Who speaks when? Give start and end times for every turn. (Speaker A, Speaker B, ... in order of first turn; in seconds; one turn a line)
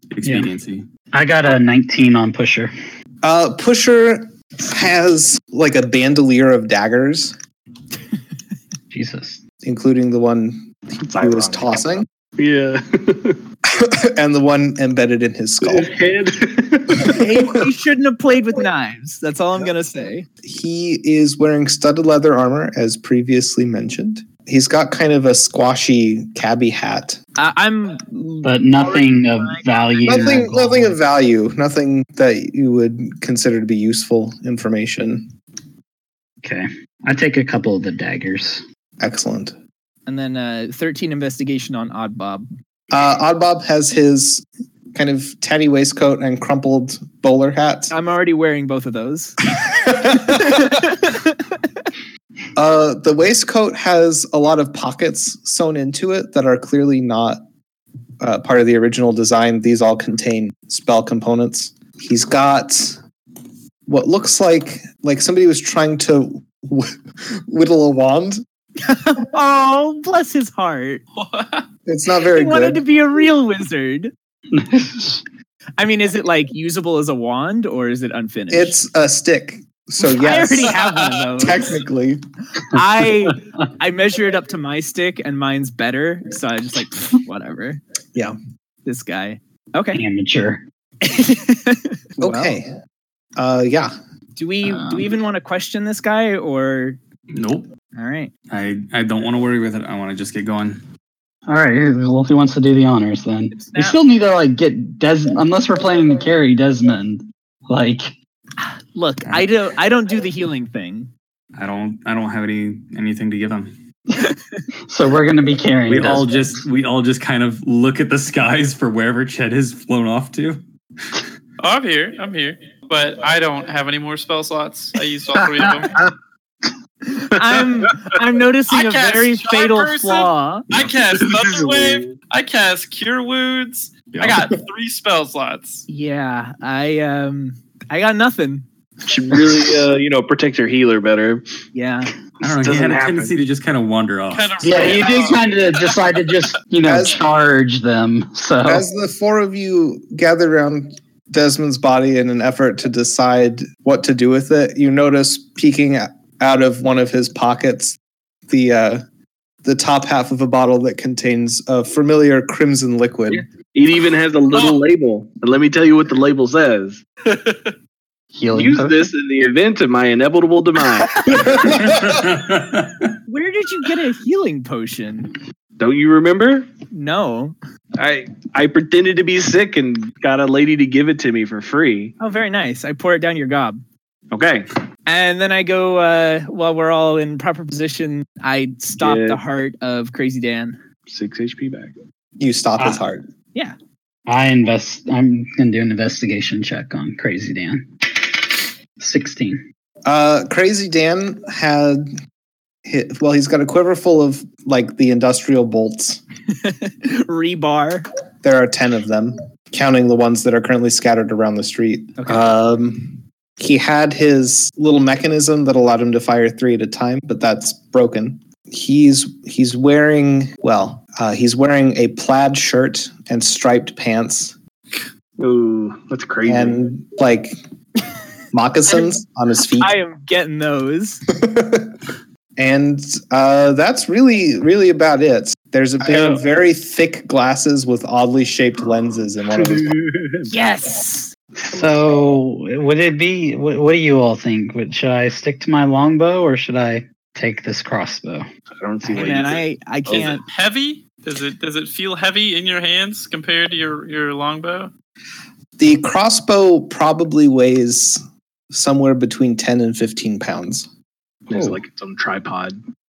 Speaker A: 0.1-0.9
Speaker B: 0.2-0.5
Speaker B: 1.1-2.7
Speaker C: 3.2-7.3
Speaker B: 8.9-9.4
Speaker C: 9.6-12.1
Speaker D: 11.0-13.4
Speaker C: 13.7-15.9
Speaker D: 15.6-17.2
Speaker E: 17.0-20.2
Speaker C: 20.4-27.2
Speaker E: 27.4-30.2
Speaker B: 28.4-30.9
Speaker C: 30.0-35.3
Speaker B: 36.4-38.6
Speaker C: 39.0-39.5
Speaker E: 40.0-42.5
Speaker C: 42.9-47.9
Speaker E: 47.9-49.4
Speaker C: 49.7-50.8
Speaker E: 50.1-51.3
Speaker C: 52.5-57.4
Speaker C: 58.2-63.0
Speaker C: 63.9-68.4
Speaker E: 68.9-71.0
Speaker F: 71.2-71.6
Speaker C: 71.8-72.8
Speaker E: 72.3-74.1
Speaker B: 74.5-75.2
Speaker E: 75.8-78.8
Speaker C: 78.5-80.8
Speaker E: 80.0-81.7
Speaker C: 81.3-82.2
Speaker E: 82.7-87.8
Speaker E: 88.8-90.0
Speaker B: 89.9-90.6
Speaker E: 91.0-92.5
Speaker C: 92.2-92.7
Speaker C: 93.4-93.9
Speaker E: 94.3-97.0
Speaker B: 94.7-95.1
Speaker A: 97.3-97.7
Speaker E: 97.9-98.3
Speaker A: 98.5-100.8
Speaker B: 101.5-108.1
Speaker E: 103.5-104.0
Speaker E: 108.6-111.1
Speaker A: 111.5-113.7
Speaker B: 114.9-116.4
Speaker A: 115.9-121.2
Speaker F: 121.6-125.9
Speaker B: 125.4-125.8
Speaker E: 127.1-130.7
Speaker F: 128.7-135.8
Speaker D: 131.2-132.2
Speaker A: 134.1-134.5
Speaker E: 135.9-138.7
Speaker D: 139.1-141.6
Speaker E: 141.7-142.1
Speaker A: 142.4-145.0
Speaker D: 142.4-143.3
Speaker F: 144.3-146.0
Speaker B: 144.6-148.8
Speaker C: 146.8-147.2
Speaker C: 148.6-159.0
Speaker C: 159.6-163.4
Speaker D: 163.3-167.1
Speaker B: 168.3-169.1
Speaker D: 168.5-172.2
Speaker A: 171.8-173.0
Speaker E: 173.2-175.3
Speaker D: 175.8-176.7
Speaker E: 176.9-177.5
Speaker D: 178.0-182.1
Speaker E: 182.2-183.8
Speaker D: 184.3-184.7
Speaker E: 185.1-190.8
Speaker D: 189.0-189.4
Speaker D: 191.1-191.9
Speaker C: 192.4-193.2
Speaker B: 192.8-193.0
Speaker B: 194.3-199.6
Speaker C: 200.1-202.1
Speaker C: 202.8-206.2
Speaker E: 206.5-208.1
Speaker C: 208.4-224.5
Speaker E: 212.2-212.5
Speaker D: 225.4-226.8
Speaker C: 226.4-227.6
Speaker C: 228.5-229.9
Speaker E: 229.8-231.2
Speaker C: 231.3-232.0
Speaker C: 232.6-240.0
Speaker B: 236.1-236.4
Speaker D: 239.6-240.5
Speaker E: 240.5-241.3
Speaker B: 241.6-248.4
Speaker D: 248.8-250.4
Speaker E: 249.1-250.4
Speaker F: 250.5-254.9
Speaker C: 255.8-260.9
Speaker D: 261.5-262.8
Speaker B: 261.5-261.8